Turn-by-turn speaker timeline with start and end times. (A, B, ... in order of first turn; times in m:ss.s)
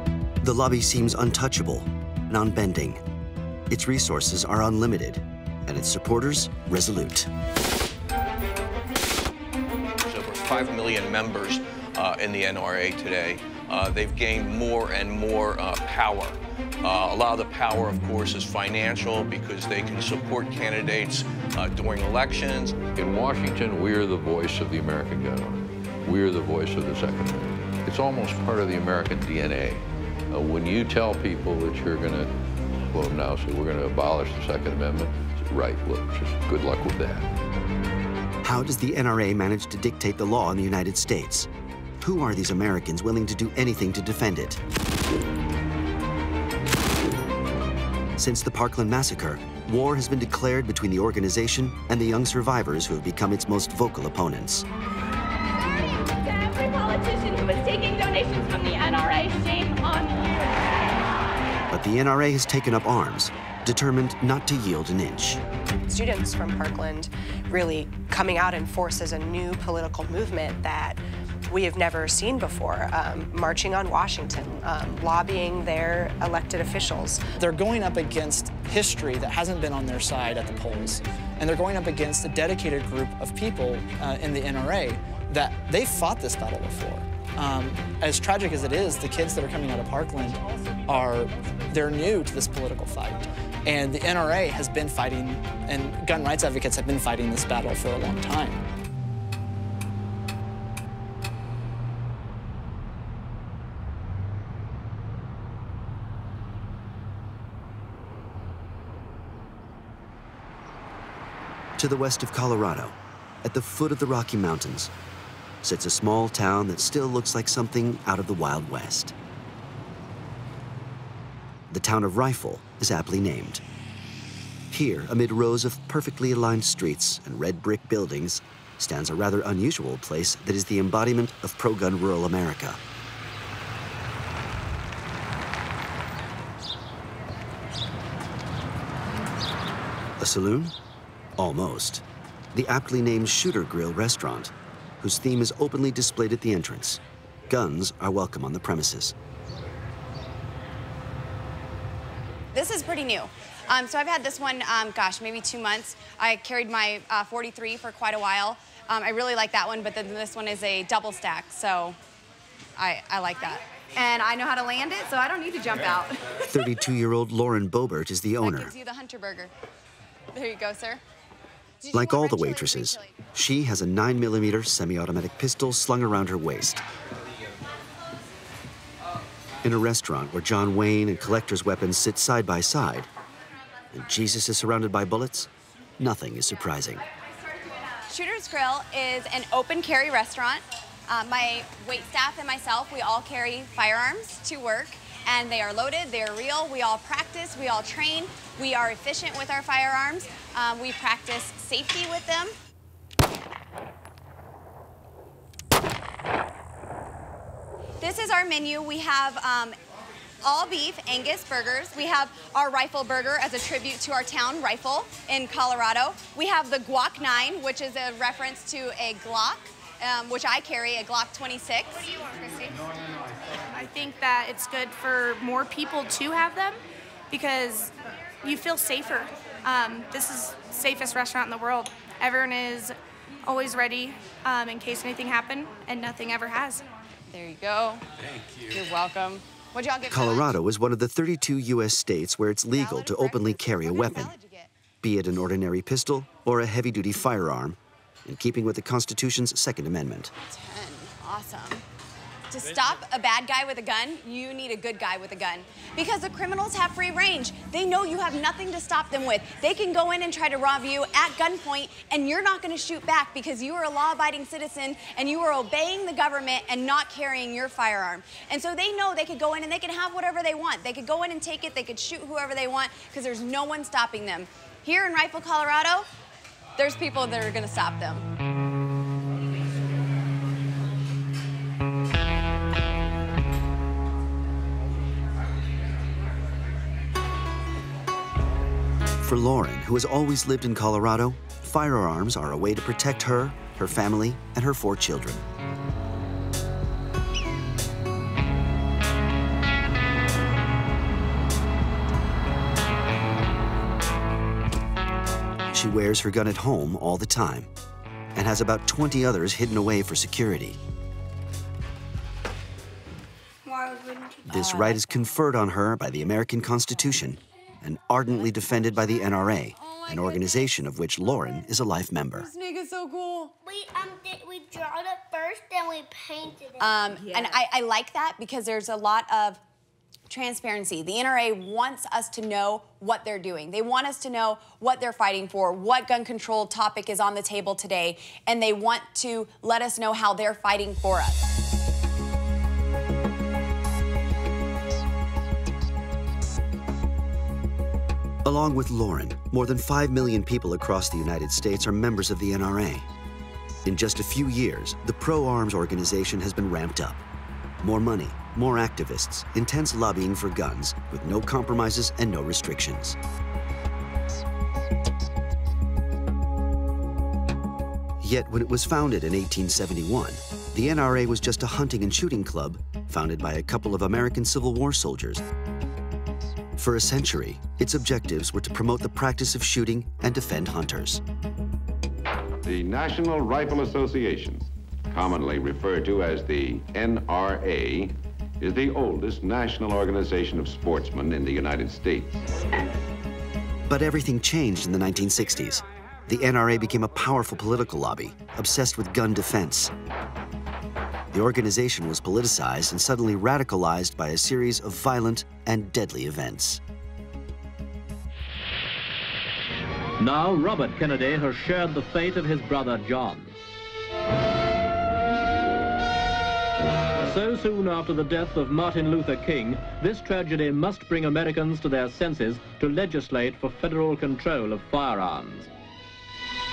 0:00.4-0:03.0 A
0:03.7-0:07.3 A
0:10.0-0:22.8 B
0:22.9-0:32.3 C
0:32.9-0:37.2 C
0:38.4-0:41.5 A
0:42.0-0:44.6 A
0:48.2-0:54.7 A
0:56.3-1:00.3 D
1:01.7-1:05.4 A
1:05.9-1:17.2 E
1:17.4-1:38.6 F
1:51.8-1:54.9 A
1:55.6-1:59.1 A
2:01.7-2:03.6 A
2:04.7-2:12.8 A
2:20.2-2:20.7 A
2:21.4-2:29.2 A
2:32.5-2:42.0 G
2:42.8-2:46.2 G
2:46.5-2:48.7 A
2:48.4-2:49.5 G
2:50.3-2:51.0 G
2:51.8-2:53.2 G
2:51.9-2:56.8 A
2:59.6-3:03.1 A
3:03.9-3:07.0 A
3:08.0-3:22.6 G
3:28.0-3:29.8 G
3:30.4-3:42.0 G
3:42.2-3:42.7 H
3:43.7-3:46.8 I
3:47.3-3:56.8 I
3:57.3-3:58.0 G
3:58.6-4:00.6 G
4:00.1-4:04.3 A
4:02.7-4:04.7 G
4:05.0-4:10.3 A
4:10.4-4:11.8 G
4:12.5-4:36.1 G
4:36.8-4:38.3 G
4:49.2-4:55.4 A
5:05.7-5:07.7 A
5:08.4-5:10.8 A
5:13.7-5:14.9 H
5:14.5-5:22.5 A
5:20.1-5:20.6 G
5:22.3-5:23.5 G
5:23.6-5:26.8 H
5:26.8-5:29.6 G
5:30.3-5:41.5 G
5:48.4-5:53.1 A
5:53.8-5:57.2 A
5:57.8-6:03.2 A
6:08.2-6:15.4 A
6:16.8-6:21.2 A
6:22.7-6:32.4 J
6:33.9-6:39.9 A
6:41.3-6:46.8 A
6:50.2-6:53.5 K
6:57.2-7:05.7 K